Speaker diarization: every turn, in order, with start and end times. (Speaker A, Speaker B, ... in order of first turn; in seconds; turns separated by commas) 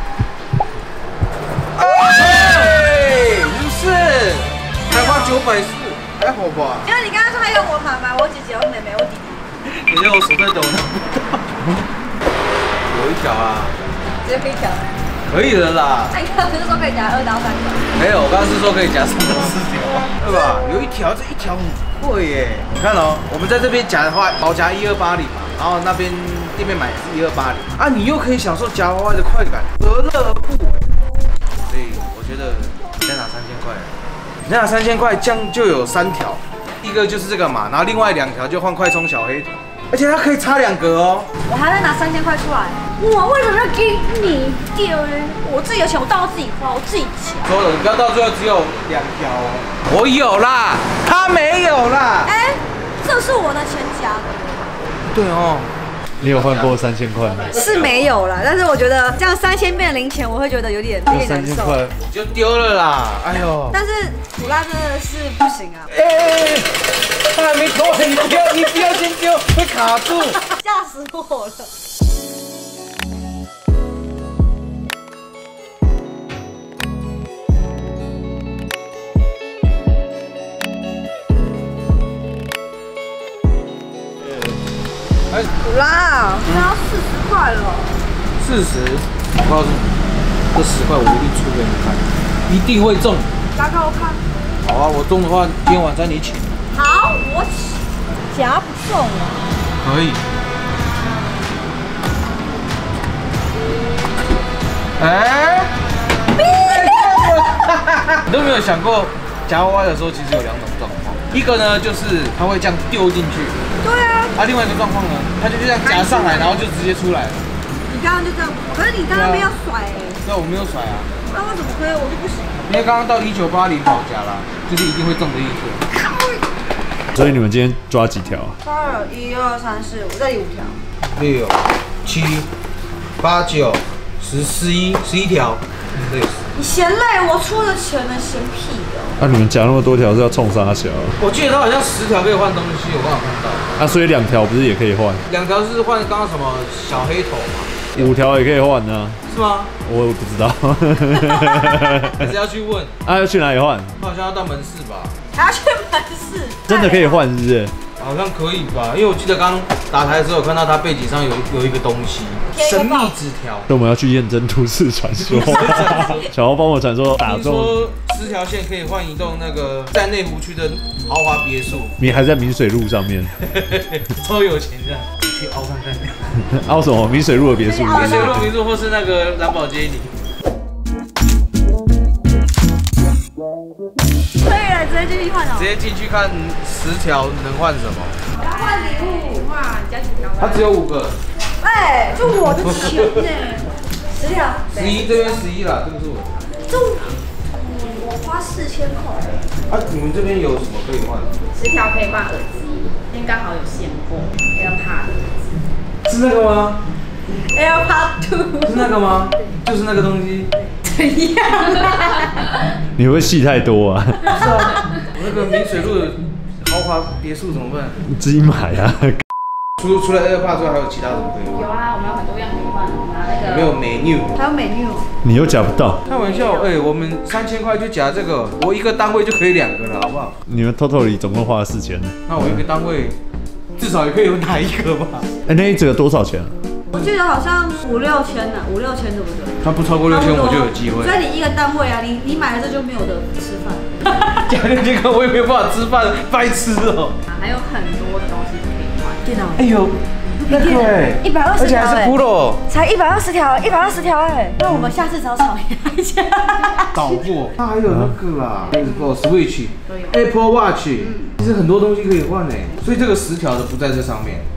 Speaker A: 1.8-6.9, Speaker B: 4.9-5.4, Speaker B: 6.8-9.4, Speaker A: 9.7-11.7, Speaker A: 12.9-13.8, Speaker B: 14.2-14.9, Speaker A: 15.3-16.2, Speaker B: 16.1-17.9, Speaker A: 17.9-30.8, Speaker A: 31.6-33.9, Speaker A: 34.5-41.3, Speaker B: 41.5-47.5, Speaker A: 47.4-52.3, Speaker B: 52.2-54.7, Speaker A: 55.1-56.8, Speaker C: 56.2-57.5, Speaker A: 57.4-57.9, Speaker B: 57.5-61.8, Speaker C: 61.1-61.9, Speaker A: 62.0-63.8, Speaker B: 63.7-65.9, Speaker A: 65.9-70.4, Speaker B: 70.4-71.7, Speaker B: 85.6-88.0, Speaker A: 88.4-89.9, Speaker A: 90.5-93.3, Speaker B: 93.5-94.2, Speaker A: 94.6-96.5, Speaker B: 96.7-99.5, Speaker A: 99.8-100.2, Speaker A: 105.0-105.7, Speaker B: 106.3-107.4, Speaker A: 106.4-113.6, Speaker B: 113.8-114.3, Speaker A: 114.3-117.5, Speaker B: 115.8-116.7, Speaker B: 117.8-120.2, Speaker A: 119.1-119.5, Speaker A: 120.2-121.1, Speaker B: 121.3-122.6, Speaker A: 122.6-125.8, Speaker B: 125.9-126.5, Speaker C: 127.1-128.6, Speaker B: 128.6-130.8, Speaker A: 131.1-132.5, Speaker A: 133.2-136.4, Speaker B: 136.5-139.2, Speaker C: 139.2-141.2, Speaker A: 141.2-143.7, Speaker C: 143.8-145.2, Speaker A: 145.3-148.2, Speaker C: 147.9-149.2, Speaker A: 149.3-149.7, Speaker C: 149.8-152.3, Speaker A: 152.2-152.9, Speaker C: 153.0-153.9, Speaker A: 154.0-155.1, Speaker B: 155.3-157.2, Speaker C: 156.7-157.7, Speaker A: 158.0-163.7, Speaker B: 162.5-163.2, Speaker C: 163.7-167.8, Speaker A: 165.2-166.2, Speaker A: 167.2-172.0, Speaker C: 172.0-173.3, Speaker A: 173.4-176.3, Speaker C: 176.4-178.5, Speaker B: 177.6-178.4, Speaker A: 177.9-180.1, Speaker B: 184.4-185.7, Speaker A: 185.5-188.2, Speaker B: 188.3-189.5, Speaker D: 188.4-190.8, Speaker A: 190.4-191.2, Speaker B: 191.6-194.7, Speaker A: 192.5-193.2, Speaker D: 194.7-195.4, Speaker A: 194.7-196.4, Speaker B: 196.7-199.5, Speaker A: 199.7-201.3, Speaker D: 201.5-205.6, Speaker A: 206.0-206.8, Speaker B: 207.5-208.9, Speaker A: 208.6-210.5, Speaker B: 210.7-212.5, Speaker C: 212.9-214.4, Speaker A: 214.3-218.0, Speaker C: 218.1-219.2, Speaker A: 219.8-221.7, Speaker D: 221.5-223.8, Speaker A: 223.3-224.3, Speaker B: 224.3-225.1, Speaker C: 225.2-226.0, Speaker A: 226.1-230.3, Speaker D: 226.1-226.8, Speaker C: 230.5-232.6, Speaker A: 232.3-233.2, Speaker A: 233.8-235.3, Speaker C: 235.4-236.5, Speaker B: 236.9-244.0, Speaker A: 239.6-241.2, Speaker A: 244.1-247.2, Speaker D: 247.3-249.2, Speaker B: 249.2-249.7, Speaker A: 249.6-252.6, Speaker B: 250.4-257.2, Speaker A: 256.9-264.5, Speaker C: 257.9-258.1, Speaker D: 258.7-259.1, Speaker D: 259.9-260.2, Speaker D: 261.0-261.3